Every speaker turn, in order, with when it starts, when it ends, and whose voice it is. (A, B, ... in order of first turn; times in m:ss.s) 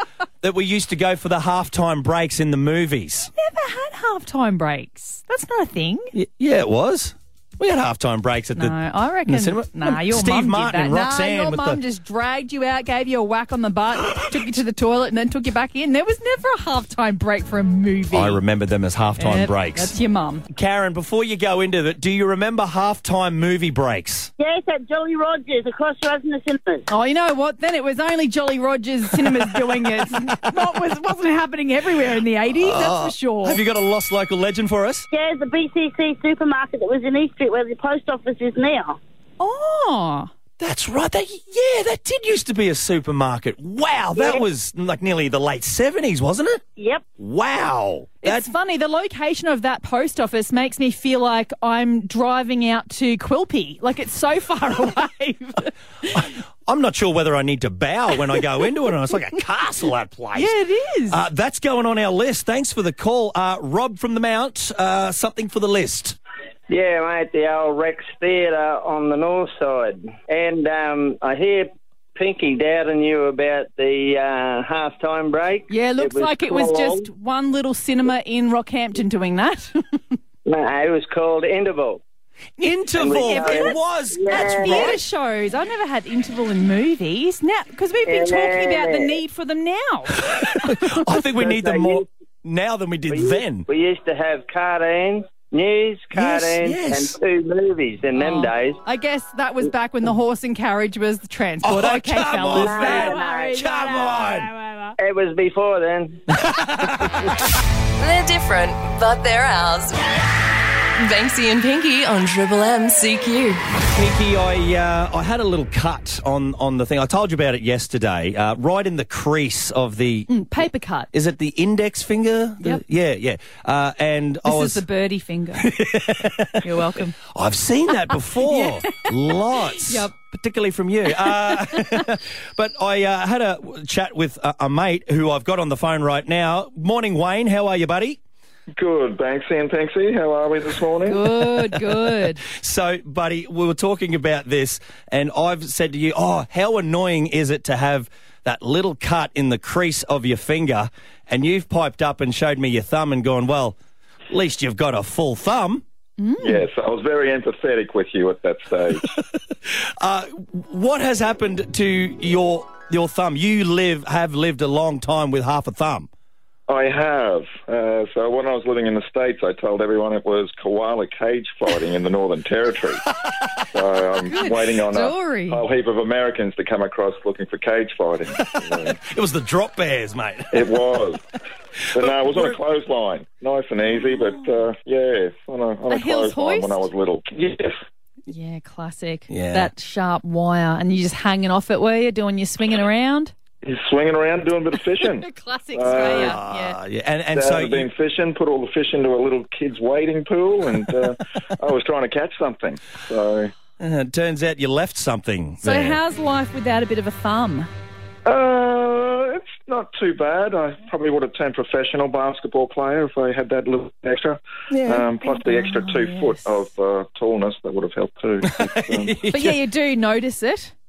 0:00.4-0:03.3 A
0:03.4-0:06.1 B
0:06.1-0:11.8 A
0:08.6-0:18.4 B
0:18.1-0:20.0 A
0:19.2-0:20.4 B
0:20.5-0:24.3 A
0:24.4-0:26.8 C
0:26.9-0:33.6 B
0:32.6-0:35.1 A
0:35.1-0:39.0 C
0:39.4-0:40.3 B
0:40.6-0:46.6 A
0:47.2-0:48.5 A
0:48.2-0:56.1 B
0:56.1-1:00.5 A
1:00.4-1:01.2 B
1:01.1-1:06.2 A
1:06.7-1:17.1 D
1:15.7-1:20.0 B
1:20.4-1:22.0 D
1:22.6-1:25.0 A
1:22.9-1:25.0 D
1:23.2-1:23.8 B
1:24.3-1:30.9 B
1:28.1-1:29.2 D
1:30.3-1:33.7 A
1:31.4-1:32.1 D
1:33.1-1:38.8 D
1:36.1-1:37.2 A
1:38.2-1:44.9 B
1:41.6-1:44.5 A
1:42.5-1:43.8 D
1:45.0-1:46.3 D
1:46.3-1:47.3 A
1:48.0-1:50.2 E
1:51.0-1:53.6 E
1:53.9-2:04.8 A
2:00.3-2:01.1 B
2:04.4-2:05.7 B
2:05.6-2:06.6 A
2:06.6-2:07.2 B
2:07.3-2:18.2 A
2:08.4-2:10.2 B
2:11.2-2:12.0 B
2:18.8-2:21.2 F
2:21.1-2:22.4 B
2:21.5-2:33.8 A
2:34.3-2:35.8 A
2:36.2-2:36.6 B
2:36.4-2:39.1 F
2:40.0-2:46.1 A
2:46.7-2:53.0 F
2:53.7-2:59.0 F
2:54.3-2:55.6 B
2:58.4-3:00.7 A
3:00.5-3:01.2 F
3:01.9-3:07.8 F
3:02.0-3:02.6 A
3:05.9-3:06.9 B
3:08.3-3:13.3 B
3:09.3-3:09.7 A
3:13.6-3:16.4 F
3:15.1-3:16.8 B
3:15.9-3:17.9 A
3:17.4-3:23.5 F
3:23.8-3:26.0 A
3:25.6-3:27.7 B
3:28.2-3:39.2 F
3:34.7-3:35.1 A
3:35.2-3:36.6 B
3:38.6-3:39.6 A
3:39.3-3:40.7 B